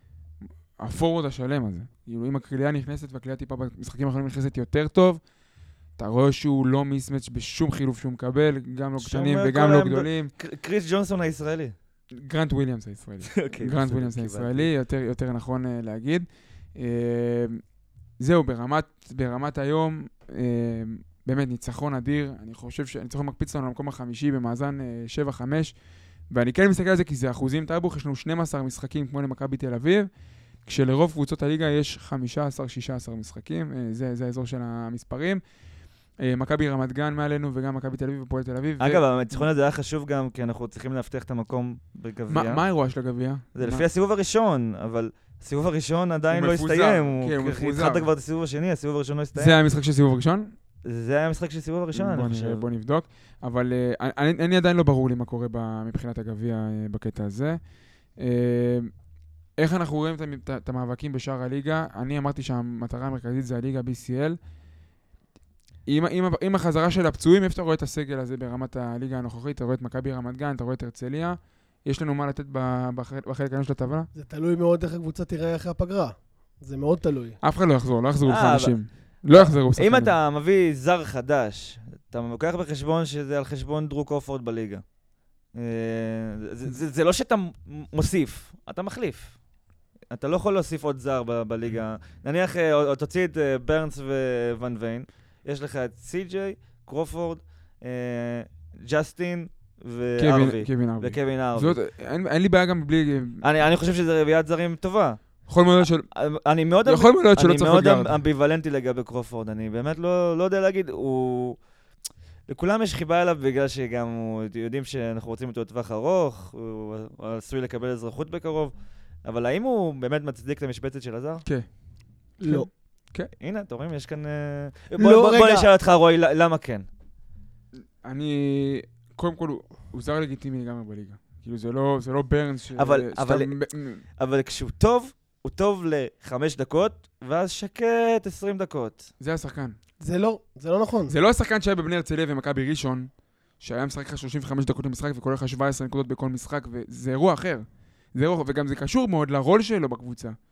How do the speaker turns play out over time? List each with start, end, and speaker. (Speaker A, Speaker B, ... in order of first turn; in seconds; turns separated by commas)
Speaker A: 0.8-5.2, Speaker A: 6.0-10.3, Speaker B: 9.0-11.7, Speaker A: 12.1-17.6, Speaker B: 13.2-14.7, Speaker A: 18.2-25.7, Speaker A: 26.3-30.1, Speaker A: 30.6-35.4, Speaker A: 36.2-39.4, Speaker B: 38.8-42.6, Speaker A: 42.3-43.8, Speaker B: 43.5-49.6, Speaker A: 46.3-48.1, Speaker A: 49.3-50.5, Speaker B: 50.8-52.7, Speaker A: 51.9-57.6, Speaker A: 58.2-58.9, Speaker A: 59.6-64.4, Speaker A: 65.9-74.1, Speaker C: 74.1-77.4, Speaker A: 77.4-80.1, Speaker B: 78.2-78.8, Speaker B: 79.3-84.8, Speaker B: 85.5-89.3, Speaker B: 90.1-101.8, Speaker A: 100.2-103.4, Speaker B: 103.4-105.2, Speaker A: 105.5-106.1, Speaker B: 106.1-111.6, Speaker A: 106.8-108.2, Speaker B: 112.5-118.7, Speaker B: 119.2-121.4, Speaker C: 122.4-122.7, Speaker A: 122.4-123.3, Speaker B: 123.4-126.9, Speaker C: 125.0-125.7, Speaker A: 128.0-134.0, Speaker B: 132.8-133.5, Speaker B: 134.2-139.1, Speaker A: 139.2-139.8, Speaker C: 140.0-141.1, Speaker A: 141.1-150.3